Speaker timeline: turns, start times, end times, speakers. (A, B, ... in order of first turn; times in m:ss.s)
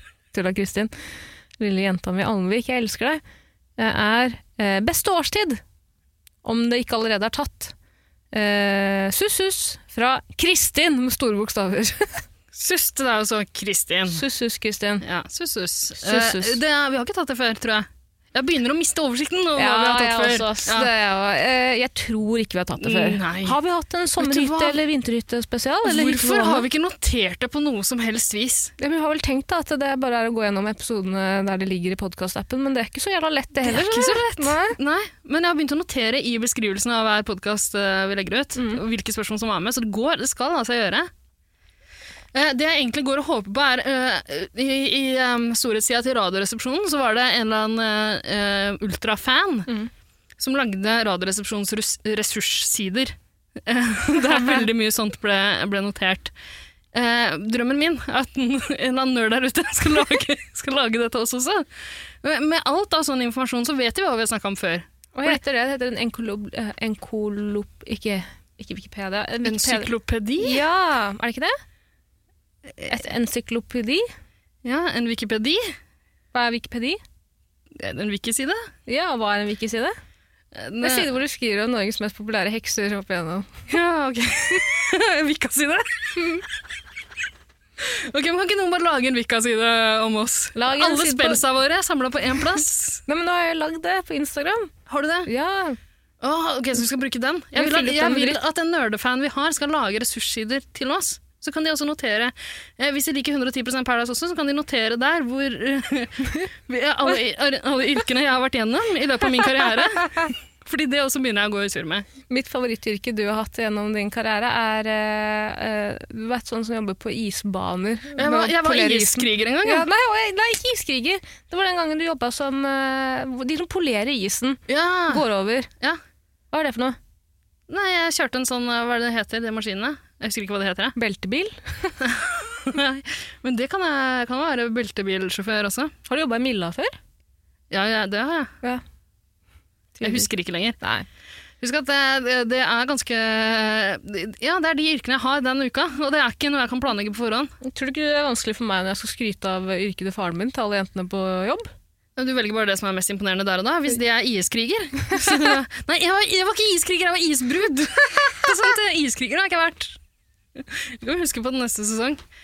0:00.3-0:00.9 A
0:01.6-0:03.2 A
0:03.8-0:05.6 A
0:06.4-0:07.7 A
0:08.3-0:12.2 A
0:12.5-0:14.2 B
0:14.1-0:15.0 A
0:15.0-0:20.9 B
0:16.0-0:16.6 A
0:19.6-0:26.6 A
0:22.8-0:23.6 B
0:24.2-0:24.8 B
0:25.8-0:28.7 B
0:28.8-0:34.8 A
0:33.6-0:41.1 B
0:38.6-0:38.8 A
0:42.3-0:49.7 B
0:50.4-0:56.3 B
0:56.9-1:01.7 B
1:02.2-1:05.4 B
1:05.2-1:11.6 A
1:09.4-1:10.6 B
1:12.9-1:14.1 A
1:14.6-1:15.7 B
1:16.3-1:17.0 A
1:17.8-1:18.7 B
1:18.9-1:20.0 A
1:20.5-1:21.1 B
1:20.8-1:23.5 A
1:23.7-1:26.4 B
1:27.8-1:33.0 B
1:30.6-1:31.4 A
1:33.1-1:34.7 A
1:34.9-1:35.3 B
1:35.3-1:35.8 A
1:36.2-1:52.1 B
1:37.6-1:38.4 A
1:52.3-2:05.7 A
1:58.2-1:59.9 B
2:04.7-2:05.2 B
2:06.5-2:07.0 A
2:07.7-2:11.0 B
2:11.0-2:12.0 A
2:12.0-2:15.9 B
2:16.1-2:17.0 A
2:17.7-2:18.5 B
2:20.0-2:20.3 A
2:20.0-2:20.8 B
2:20.8-2:21.1 A
2:21.6-2:27.5 B
2:27.6-2:31.7 A
2:32.2-2:40.0 B
2:40.6-2:42.2 B